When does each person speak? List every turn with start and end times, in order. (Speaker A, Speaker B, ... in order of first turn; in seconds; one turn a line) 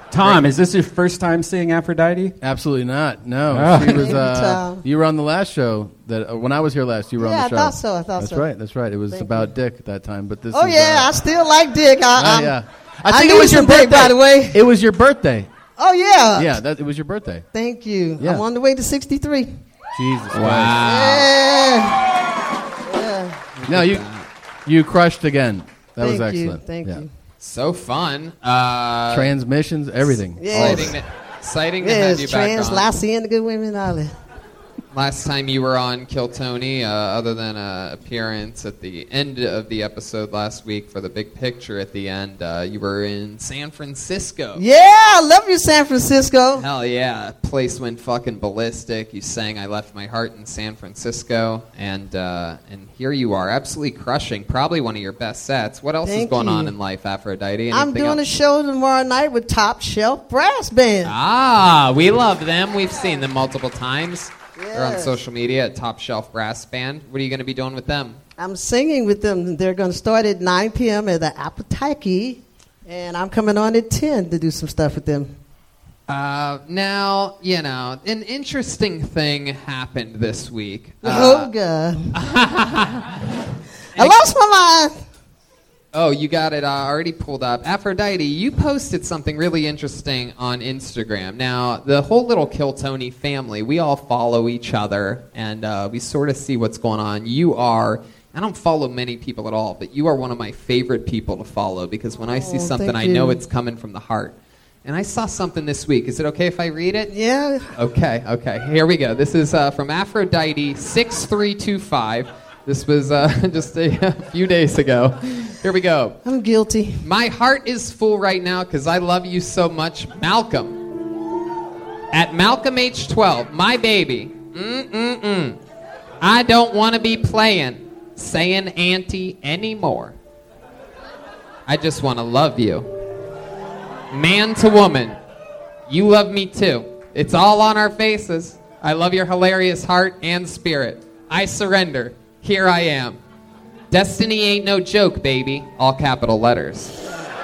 Speaker A: 0.1-2.3
Speaker B: 2.4-11.1
Speaker A: 3.5-4.1
Speaker C: 3.9-4.8
Speaker C: 7.2-8.4
Speaker C: 9.1-9.5
Speaker C: 10.5-12.6
Speaker B: 12.2-15.5
Speaker C: 13.1-14.6
Speaker C: 15.8-16.6
Speaker B: 16.4-17.4
Speaker C: 17.5-19.5
Speaker B: 18.2-18.4
Speaker B: 19.9-20.7
Speaker D: 20.3-21.3
Speaker C: 20.8-22.1
Speaker C: 22.9-23.4
Speaker D: 23.6-24.2
Speaker B: 23.7-24.0
Speaker B: 24.6-27.0
Speaker C: 26.0-27.1
Speaker D: 27.4-29.3
Speaker B: 29.1-30.9
Speaker C: 30.4-31.0
Speaker D: 30.5-32.9
Speaker C: 31.8-34.1
Speaker D: 34.9-44.6
Speaker C: 44.5-46.6
Speaker D: 46.6-58.2
Speaker C: 56.0-56.7
Speaker C: 57.7-61.1
Speaker D: 61.0-68.2
Speaker C: 64.6-65.2
Speaker C: 68.4-75.3
Speaker D: 76.1-81.5
Speaker C: 81.0-82.1
Speaker D: 82.1-83.2
Speaker C: 84.0-84.9
Speaker D: 85.9-104.3
Speaker C: 102.3-103.4
Speaker D: 104.8-107.1
Speaker C: 107.1-107.7
Speaker D: 107.7-116.2
Speaker C: 116.2-117.0
Speaker D: 117.0-120.8
Speaker D: 122.1-125.6
Speaker D: 126.2-130.1
Speaker D: 131.7-132.9
Speaker D: 134.1-135.2
Speaker D: 135.9-143.2
Speaker D: 143.9-147.0